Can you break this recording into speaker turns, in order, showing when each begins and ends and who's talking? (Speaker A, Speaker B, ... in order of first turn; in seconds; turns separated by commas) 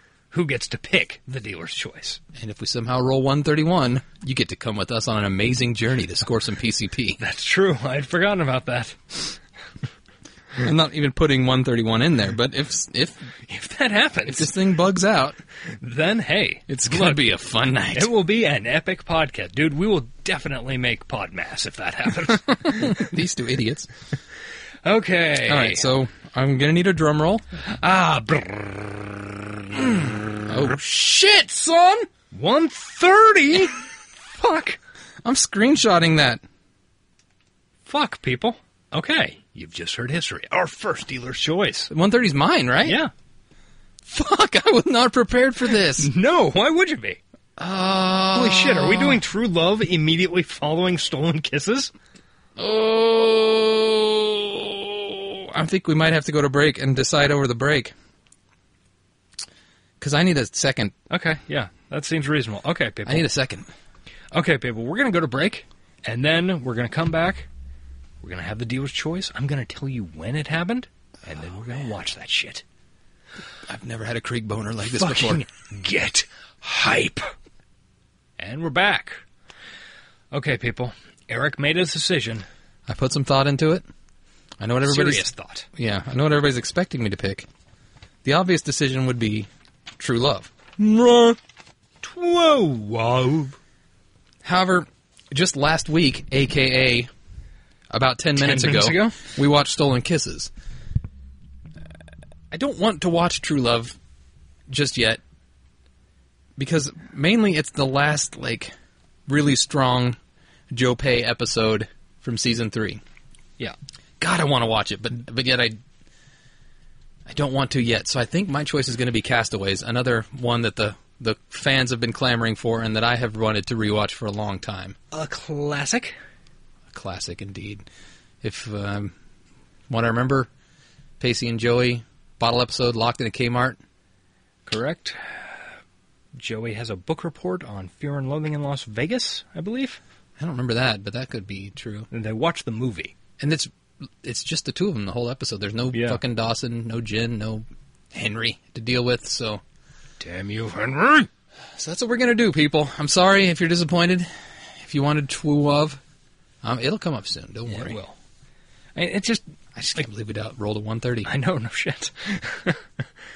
Speaker A: 0.3-2.2, Speaker B: 2.3-7.2, Speaker A: 7.2-9.4, Speaker B: 10.6-13.3, Speaker A: 13.4-14.7, Speaker B: 14.3-15.4, Speaker A: 15.8-17.4, Speaker B: 16.7-18.1, Speaker A: 17.9-23.1, Speaker B: 22.6-23.9, Speaker A: 24.8-25.9, Speaker B: 25.4-27.6, Speaker A: 27.6-30.2, Speaker B: 29.8-32.1, Speaker A: 32.3-34.8, Speaker B: 35.2-36.4, Speaker A: 37.9-41.9, Speaker B: 41.9-43.0, Speaker A: 42.8-43.1, Speaker B: 44.1-46.1, Speaker A: 46.0-47.2, Speaker B: 47.6-49.2, Speaker A: 48.3-51.9, Speaker B: 52.6-57.9, Speaker B: 60.0-60.9, Speaker A: 61.1-63.3, Speaker B: 63.0-63.7, Speaker A: 64.3-67.5, Speaker A: 68.2-72.6, Speaker B: 71.6-71.9, Speaker B: 73.7-75.4, Speaker A: 74.9-77.3, Speaker A: 78.4-79.2, Speaker A: 80.3-82.5, Speaker B: 82.9-83.8, Speaker B: 84.6-87.5, Speaker A: 84.8-85.7, Speaker B: 88.2-90.7, Speaker A: 90.8-91.4, Speaker A: 92.0-93.6, Speaker B: 94.4-97.1, Speaker B: 97.9-100.5, Speaker A: 98.3-99.2, Speaker B: 102.5-104.0, Speaker B: 104.7-105.2, Speaker B: 106.6-108.7, Speaker B: 109.3-110.2, Speaker B: 110.7-113.0, Speaker B: 114.2-115.8, Speaker B: 117.2-125.0, Speaker A: 125.1-126.2, Speaker B: 126.9-127.8, Speaker B: 128.4-129.1, Speaker B: 129.9-130.5, Speaker B: 131.2-133.8, Speaker A: 134.7-135.6, Speaker A: 136.3-140.0, Speaker B: 140.4-142.1, Speaker A: 142.1-143.1, Speaker B: 143.4-143.7, Speaker B: 144.2-149.6, Speaker A: 145.9-146.2, Speaker A: 150.2-151.3, Speaker B: 151.8-156.0, Speaker B: 156.6-158.0, Speaker A: 157.7-158.1, Speaker A: 158.9-159.4, Speaker B: 159.8-161.3, Speaker A: 161.2-162.8